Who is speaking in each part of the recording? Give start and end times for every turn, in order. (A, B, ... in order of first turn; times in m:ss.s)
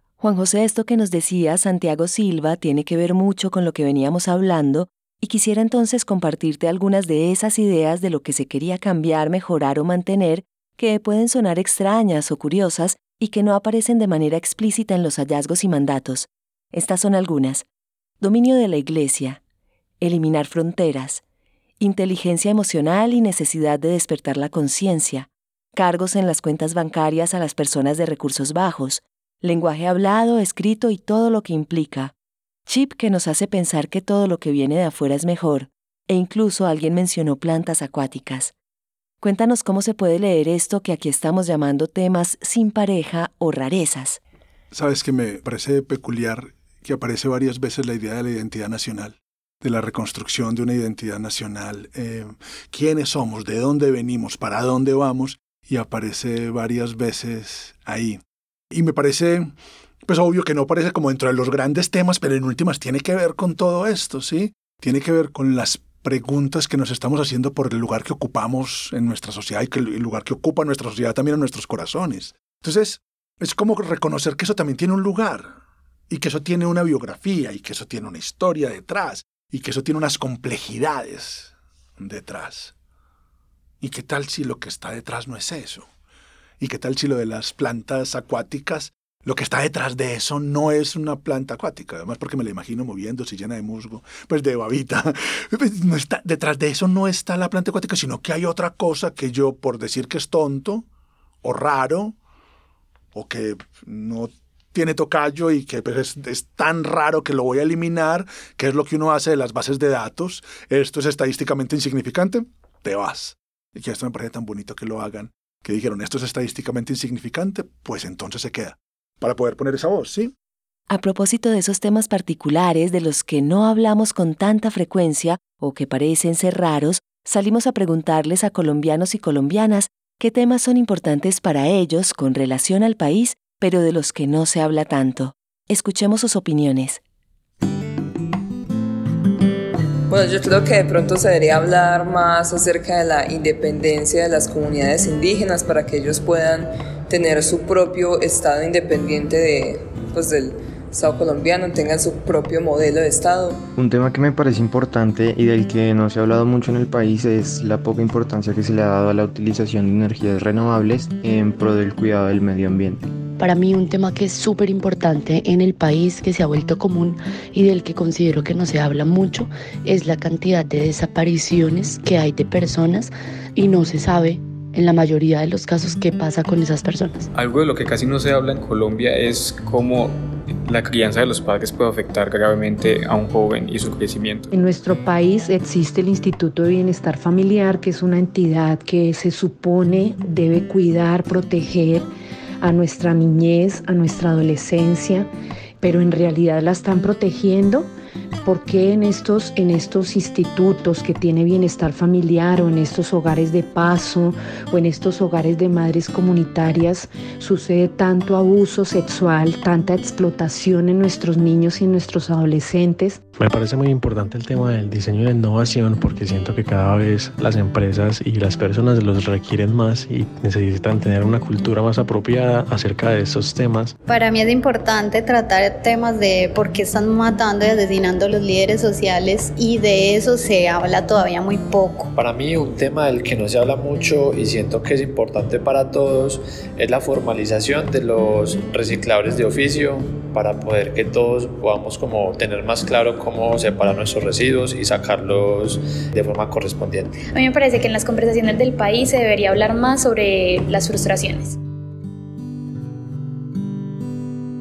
0:00.2-0:17.7 A
0:18.2-0:19.4 A
0:20.0-0:21.2 A
0:21.8-0:32.1 A
0:32.7-0:38.5 A
0:39.2-0:44.2 A
0:44.7-0:58.2 B
0:58.7-0:59.5 B
1:00.0-1:15.6 B
1:16.1-1:22.7 B
1:23.8-1:25.9 B
1:26.6-1:40.9 B
1:41.4-1:42.2 B
1:43.1-2:00.3 B
2:00.9-2:17.0 A
2:20.1-2:33.6 C
2:33.8-2:43.0 D
2:43.4-2:57.3 E
2:57.4-3:00.1 F
3:00.6-3:04.5 F
3:04.5-3:12.1 G
3:12.6-3:15.3 G
3:15.8-3:17.9 G
3:18.4-3:33.2 G
3:33.4-3:43.9 H
3:44.1-3:52.1 I
3:52.2-4:07.2 J
4:07.3-4:11.6 K